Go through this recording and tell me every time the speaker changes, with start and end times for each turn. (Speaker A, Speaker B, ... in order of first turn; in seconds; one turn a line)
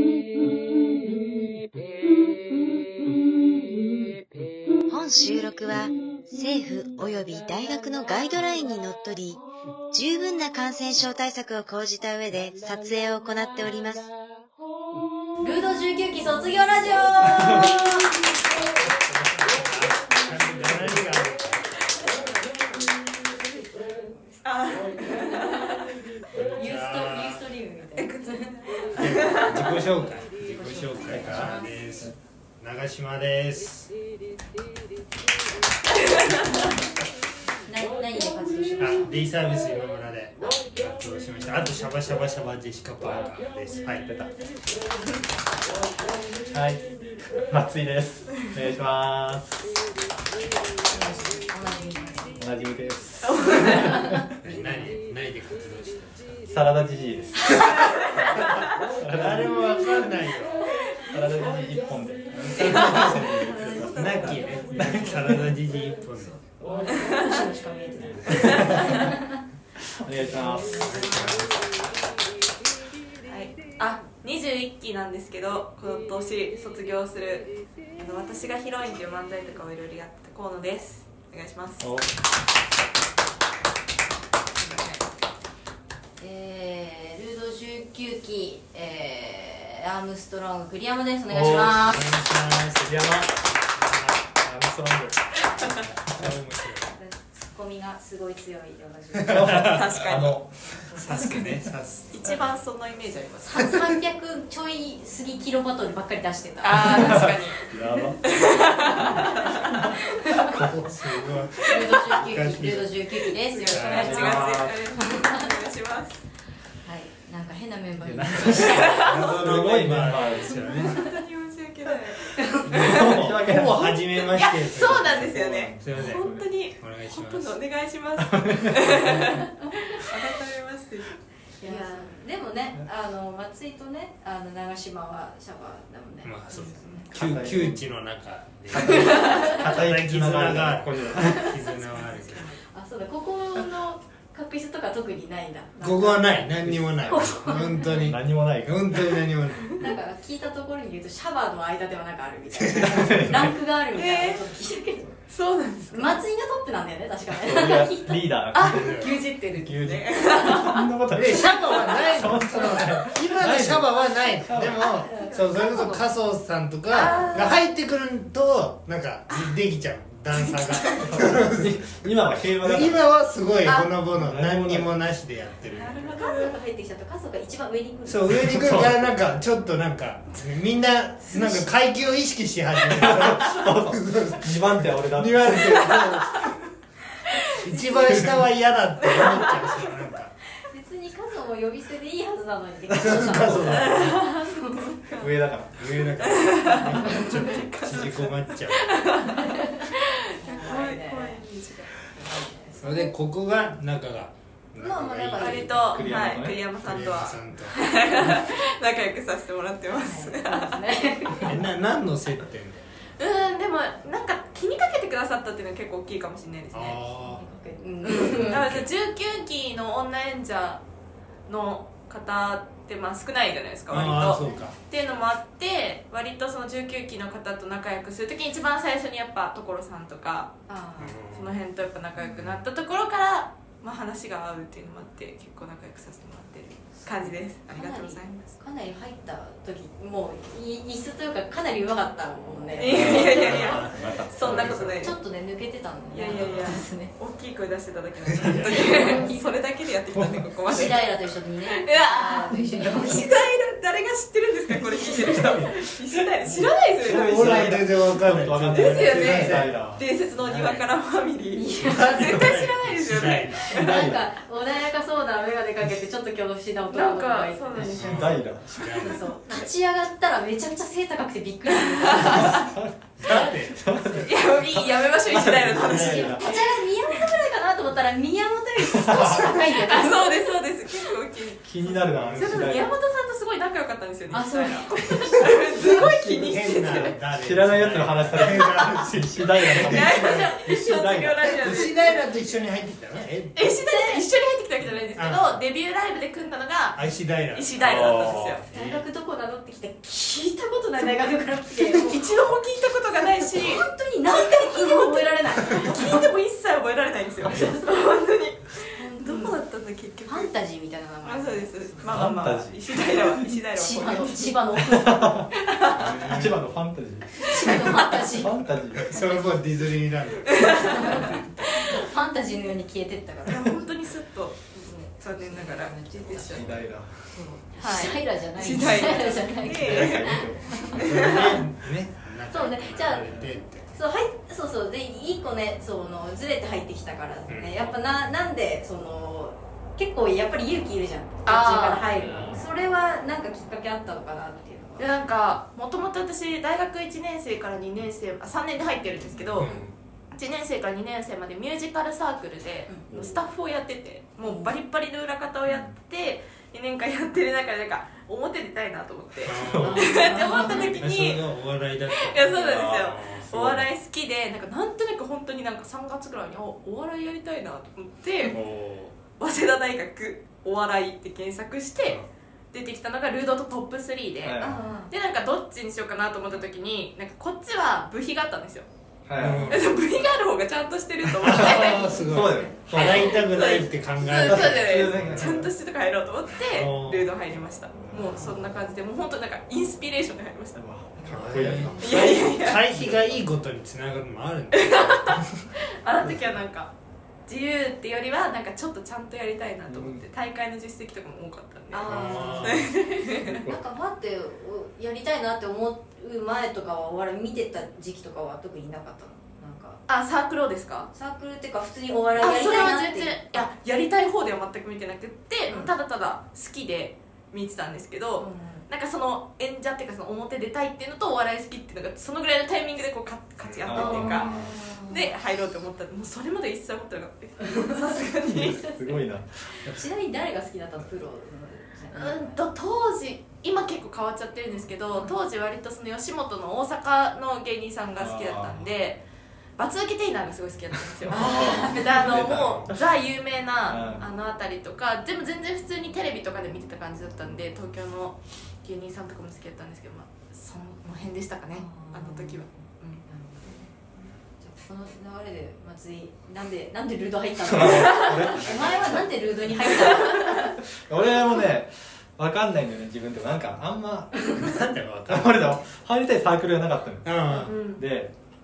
Speaker A: 4.9-14.1
Speaker B: 15.4-18.1
Speaker C: 19.1-22.5
Speaker D: 24.4-25.8
Speaker B: 26.4-28.5
Speaker C: 26.5-27.4
Speaker D: 28.0-29.7
Speaker C: 28.9-33.9
Speaker B: 30.5-32.1
Speaker E: 31.1-31.5
Speaker B: 37.6-39.1
Speaker C: 38.8-44.1
Speaker E: 43.0-43.3
Speaker E: 44.0-44.5
Speaker E: 46.5-49.6
Speaker B: 50.9-52.4
Speaker E: 52.4-54.2
Speaker D: 53.3-54.0
Speaker B: 53.7-54.2
Speaker C: 54.4-56.4
Speaker E: 56.5-58.1
Speaker D: 57.5-58.5
Speaker E: 59.0-59.5
Speaker C: 59.1-60.6
Speaker E: 61.0-65.5
Speaker C: 62.5-66.3
Speaker D: 62.6-64.6
Speaker B: 62.9-63.3
Speaker B: 66.2-69.4
Speaker D: 68.3-68.7
Speaker E: 68.4-69.1
Speaker E: 70.0-71.2
Speaker B: 70.2-71.5
Speaker C: 70.8-71.7
Speaker D: 73.2-81.8
Speaker E: 81.8-82.1
Speaker D: 84.6-85.0
Speaker B: 86.2-92.1
Speaker E: 91.3-92.0
Speaker C: 91.5-94.2
Speaker E: 92.8-93.4
Speaker E: 94.2-95.8
Speaker C: 96.1-96.9
Speaker B: 97.0-99.7
Speaker C: 99.3-99.8
Speaker E: 99.3-100.8
Speaker D: 99.6-100.4
Speaker B: 100.6-101.2
Speaker C: 100.9-102.1
Speaker D: 101.0-101.5
Speaker D: 102.1-103.7
Speaker B: 103.4-110.5
Speaker D: 106.6-107.6
Speaker E: 106.8-108.6
Speaker D: 108.3-109.8
Speaker E: 109.2-109.8
Speaker E: 110.5-110.7
Speaker C: 110.5-113.1
Speaker B: 111.6-115.5
Speaker D: 113.4-116.2
Speaker C: 113.7-114.2
Speaker E: 113.9-114.8
Speaker B: 116.8-119.1
Speaker E: 118.0-120.9
Speaker D: 118.6-119.4
Speaker C: 119.0-120.9
Speaker D: 120.1-122.9
Speaker B: 122.4-123.0
Speaker E: 122.7-124.0
Speaker C: 122.8-127.6
Speaker D: 123.8-132.1
Speaker E: 125.1-126.6
Speaker E: 128.3-129.4
Speaker B: 131.6-137.0
Speaker C: 136.2-142.5
Speaker D: 136.5-137.0
Speaker E: 137.1-137.8
Speaker E: 138.7-141.6
Speaker B: 138.9-139.6
Speaker B: 141.1-147.9
Speaker C: 145.8-149.7
Speaker E: 146.6-149.2
Speaker B: 149.8-155.2
Speaker C: 152.5-153.0
Speaker E: 152.9-153.5
Speaker D: 153.9-154.4
Speaker D: 155.3-156.2
Speaker B: 155.9-159.7
Speaker E: 157.3-164.9
Speaker D: 158.5-160.8
Speaker C: 158.8-159.1
Speaker B: 160.3-160.8
Speaker C: 161.1-171.9
Speaker D: 164.9-166.0
Speaker B: 165.1-165.4
Speaker D: 166.9-167.6
Speaker B: 167.0-167.3
Speaker D: 170.3-171.3
Speaker E: 170.9-173.0
Speaker C: 172.6-176.1
Speaker E: 174.1-174.9
Speaker D: 175.7-176.6
Speaker B: 175.8-178.3
Speaker C: 178.0-186.5
Speaker E: 178.3-179.1
Speaker B: 181.2-181.7
Speaker E: 182.9-186.1
Speaker C: 187.5-190.3
Speaker D: 189.2-189.8
Speaker B: 190.6-194.9
Speaker E: 192.9-194.2
Speaker C: 193.0-194.2
Speaker D: 193.8-195.3
Speaker E: 195.1-195.9
Speaker C: 195.8-198.9
Speaker D: 196.2-201.9
Speaker B: 197.0-197.5
Speaker B: 199.4-203.1
Speaker C: 202.8-205.8
Speaker B: 204.8-206.1
Speaker D: 205.4-210.8
Speaker E: 205.7-206.8
Speaker C: 206.8-208.2
Speaker B: 209.9-211.7
Speaker C: 211.4-212.8
Speaker D: 213.2-217.0
Speaker C: 216.7-217.4
Speaker B: 217.2-218.8
Speaker D: 218.3-220.8
Speaker C: 218.4-218.8
Speaker D: 221.5-230.5
Speaker C: 223.9-224.8
Speaker B: 224.0-224.7
Speaker B: 230.7-231.2
Speaker C: 231.0-231.6
Speaker D: 231.3-238.6
Speaker B: 236.9-243.8
Speaker D: 242.8-245.1
Speaker E: 242.8-244.8
Speaker C: 243.3-245.1
Speaker B: 244.9-247.1
Speaker D: 246.1-251.1
Speaker E: 246.3-246.7
Speaker C: 248.3-248.7
Speaker B: 248.6-249.5
Speaker E: 250.2-250.4
Speaker B: 250.7-253.3
Speaker D: 251.7-258.0
Speaker B: 255.1-255.5
Speaker E: 256.5-260.9
Speaker C: 257.0-259.8
Speaker D: 258.7-264.0
Speaker B: 261.5-262.2
Speaker C: 261.8-263.7
Speaker E: 262.2-262.5
Speaker B: 263.6-268.2
Speaker E: 263.7-264.2
Speaker D: 266.9-268.3
Speaker E: 267.8-269.2
Speaker C: 267.9-269.2
Speaker B: 269.0-272.6
Speaker E: 272.1-276.4
Speaker D: 272.2-272.6
Speaker C: 273.2-274.3
Speaker D: 274.2-276.8
Speaker C: 275.8-276.3
Speaker B: 275.8-280.6
Speaker E: 278.8-279.6
Speaker D: 279.8-287.1
Speaker E: 281.6-282.9
Speaker C: 282.0-282.7
Speaker B: 284.3-285.9
Speaker C: 285.9-290.5
Speaker E: 287.3-291.6
Speaker D: 289.6-292.2
Speaker C: 291.4-293.6
Speaker D: 293.5-298.6
Speaker B: 293.8-294.2
Speaker C: 295.1-295.5
Speaker C: 296.9-298.1
Speaker E: 297.8-298.6
Speaker C: 298.7-299.1
Speaker B: 298.7-302.2
Speaker D: 301.9-310.5
Speaker B: 303.5-306.3
Speaker B: 307.4-307.9
Speaker E: 307.4-307.7
Speaker B: 308.9-309.6
Speaker B: 310.2-312.2
Speaker D: 311.2-314.6
Speaker E: 312.0-313.3
Speaker B: 313.8-315.9
Speaker E: 314.9-315.4
Speaker D: 315.6-316.3
Speaker C: 315.9-316.6
Speaker E: 316.0-319.4
Speaker B: 317.4-319.5
Speaker C: 319.1-321.8
Speaker D: 320.6-321.1
Speaker B: 320.7-324.0
Speaker D: 323.5-326.8
Speaker B: 324.7-331.6
Speaker E: 326.4-327.2
Speaker D: 327.8-331.6
Speaker E: 329.1-331.5
Speaker C: 331.0-333.9
Speaker B: 332.5-345.1
Speaker C: 337.5-337.9
Speaker E: 337.9-338.1
Speaker D: 341.4-342.0
Speaker E: 342.2-342.6
Speaker D: 345.0-349.7
Speaker E: 349.3-349.7
Speaker C: 349.6-349.9
Speaker D: 350.3-361.5
Speaker E: 353.1-353.4
Speaker B: 354.4-354.7
Speaker E: 355.7-355.9
Speaker C: 359.4-359.9
Speaker E: 359.6-360.1
Speaker B: 359.8-361.0
Speaker C: 360.7-362.4
Speaker D: 362.1-368.6
Speaker E: 362.4-363.9
Speaker E: 368.5-369.1
Speaker D: 369.4-372.2
Speaker D: 372.7-378.9
Speaker E: 374.4-374.8
Speaker B: 374.6-375.1
Speaker E: 379.3-379.7
Speaker C: 379.4-379.9
Speaker D: 379.6-382.2
Speaker E: 381.4-383.2
Speaker C: 381.4-385.7
Speaker B: 381.9-383.1
Speaker D: 382.9-390.8
Speaker E: 384.3-385.7
Speaker C: 386.7-387.3
Speaker E: 388.0-388.8
Speaker E: 390.8-393.2
Speaker C: 391.2-395.2
Speaker D: 392.0-392.8
Speaker D: 394.7-396.9
Speaker D: 397.5-402.1
Speaker E: 399.9-400.2
Speaker B: 401.9-402.8
Speaker E: 402.1-402.4
Speaker C: 402.1-402.9
Speaker D: 402.6-403.6
Speaker E: 403.4-403.8
Speaker B: 403.5-410.0
Speaker D: 410.1-411.1
Speaker B: 411.1-413.7
Speaker D: 412.4-429.2
Speaker B: 418.4-418.8
Speaker C: 423.6-423.9
Speaker E: 423.8-424.8
Speaker B: 423.9-425.3
Speaker E: 428.4-429.9
Speaker B: 429.8-432.6
Speaker D: 432.1-439.2
Speaker E: 438.2-438.9
Speaker D: 439.8-453.2
Speaker E: 441.2-443.0
Speaker B: 441.3-442.6
Speaker E: 443.9-444.3
Speaker B: 451.7-454.0
Speaker B: 454.6-460.8
Speaker E: 457.6-464.7
Speaker C: 464.5-465.8
Speaker E: 465.3-468.3
Speaker C: 467.2-467.8
Speaker D: 467.5-468.0